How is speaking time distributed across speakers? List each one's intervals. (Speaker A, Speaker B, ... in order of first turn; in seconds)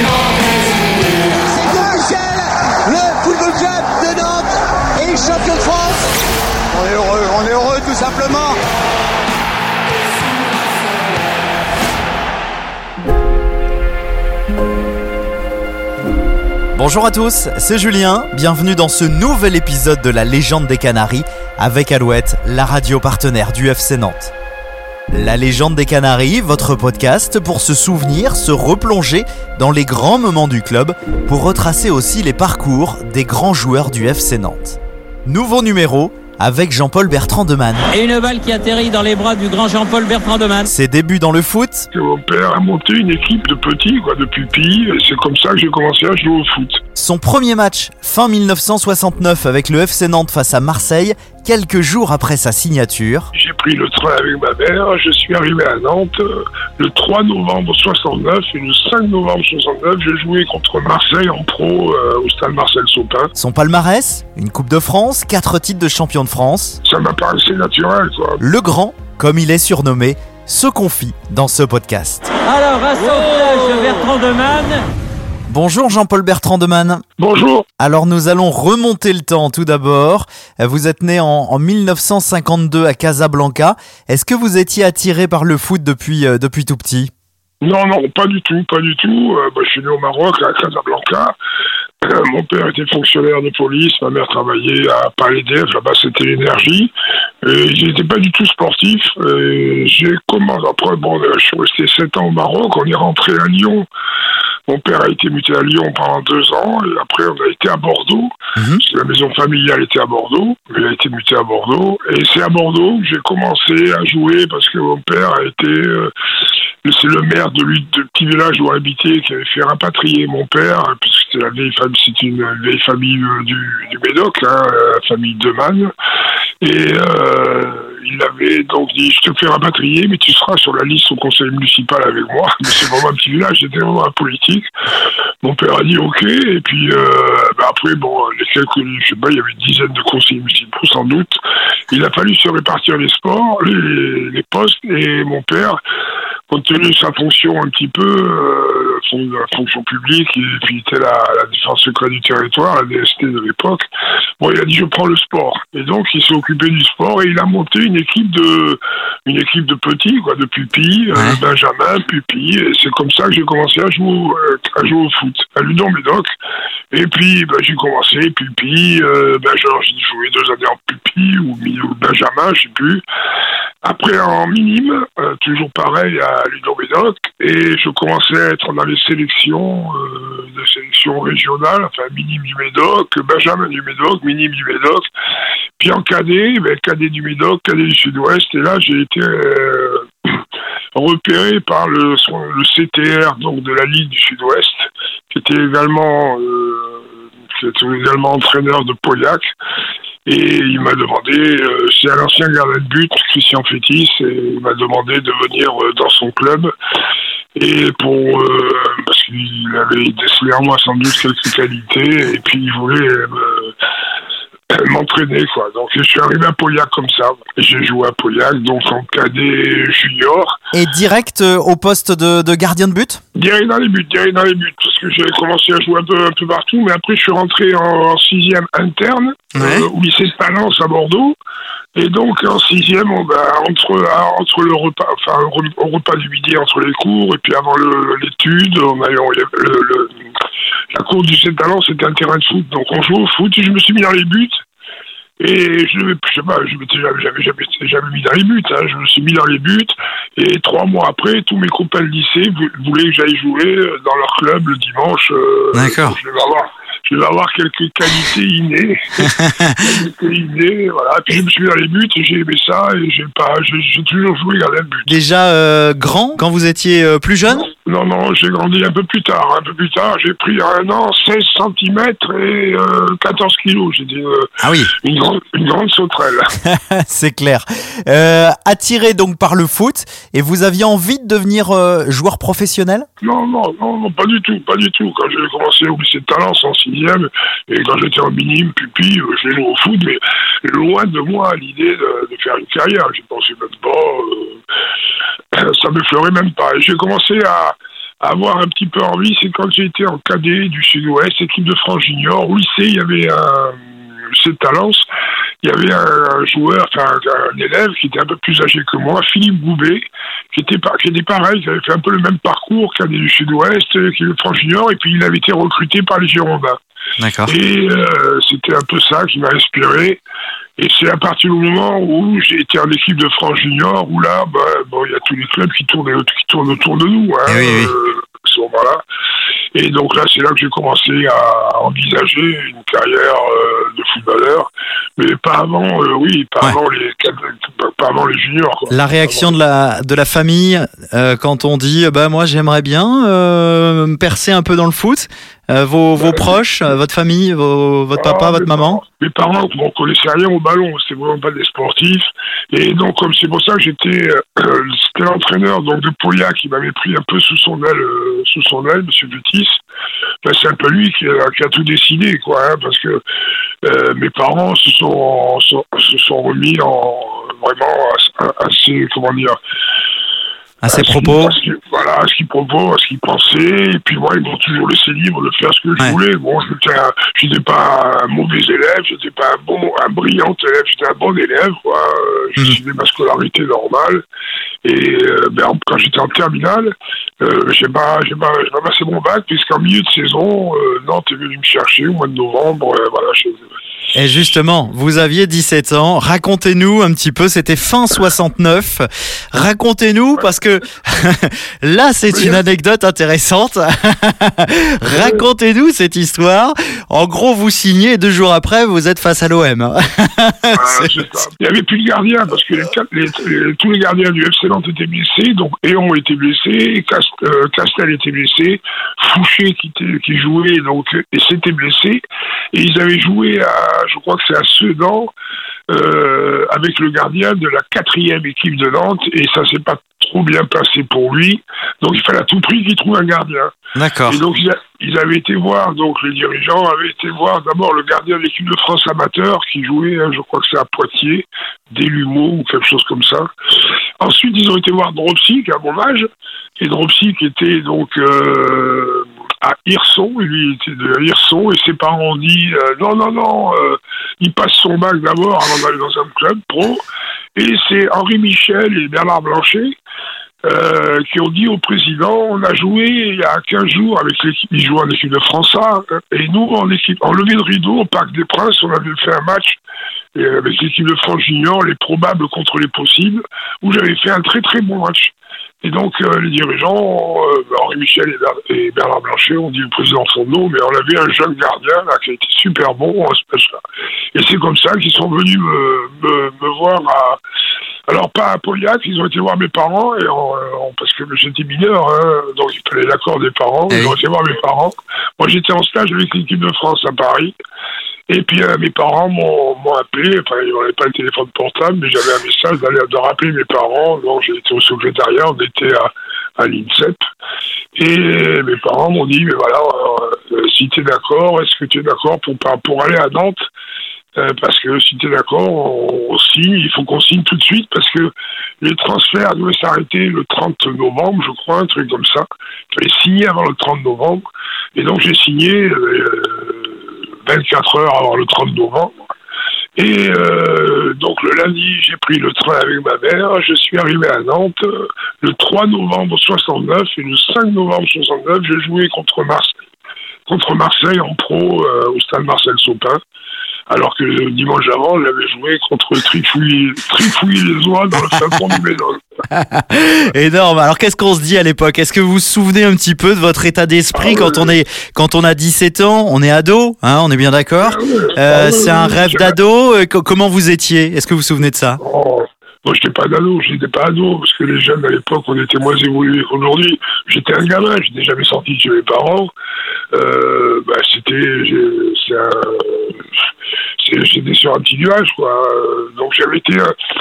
Speaker A: 1.3-6.1, 6.7-8.6
Speaker B: 16.7-24.3, 25.1-37.9, 40.6-41.9, 47.0-53.3, 63.3-66.8, 68.4-72.3, 75.5-77.0, 77.8-87.1, 108.5-108.8, 220.7-223.2, 229.6-229.9, 255.7-256.2, 259.2-259.9, 265.1-267.7, 274.6-274.9, 276.6-283.1, 317.2-317.5, 327.5-327.9, 338.9-349.0, 370.8-371.6, 394.1-411.4, 433.9-434.4, 493.9-494.1, 549.5-562.0
Speaker C: 37.9-40.6, 72.5-74.8
Speaker D: 41.9-46.8, 53.3-63.3, 66.8-68.4, 77.2-77.7, 87.6-91.3, 92.0-103.9, 104.7-116.1, 116.8-125.9, 126.6-134.7, 135.4-141.4, 141.9-145.8, 146.5-153.9, 154.4-166.3, 166.9-173.0, 173.8-185.1, 185.8-190.4, 190.9-199.5, 200.2-206.7, 207.6-213.7, 214.7-220.6, 223.3-231.3, 231.9-240.1, 240.9-244.5, 245.4-265.1, 267.6-276.5, 283.2-294.6, 295.5-305.0, 305.6-316.8, 317.4-320.2, 320.8-329.0, 329.7-339.5, 346.2-346.6, 348.1-359.8, 360.4-363.2, 363.8-369.6, 370.9-384.2, 384.8-393.6, 402.3-402.6, 405.1-405.4, 410.7-422.2, 422.7-425.3, 425.9-433.7, 434.2-443.5, 444.2-446.3, 446.8-457.0, 457.6-459.9, 460.6-469.8, 470.3-483.8, 484.3-487.4, 488.1-497.6, 498.3-507.2, 508.0-513.7, 514.4-524.4, 525.0-529.3, 530.0-539.7, 540.5-543.2, 543.9-549.2, 554.1-554.7, 557.8-559.5, 562.0-569.5, 570.1-573.3, 574.0-576.9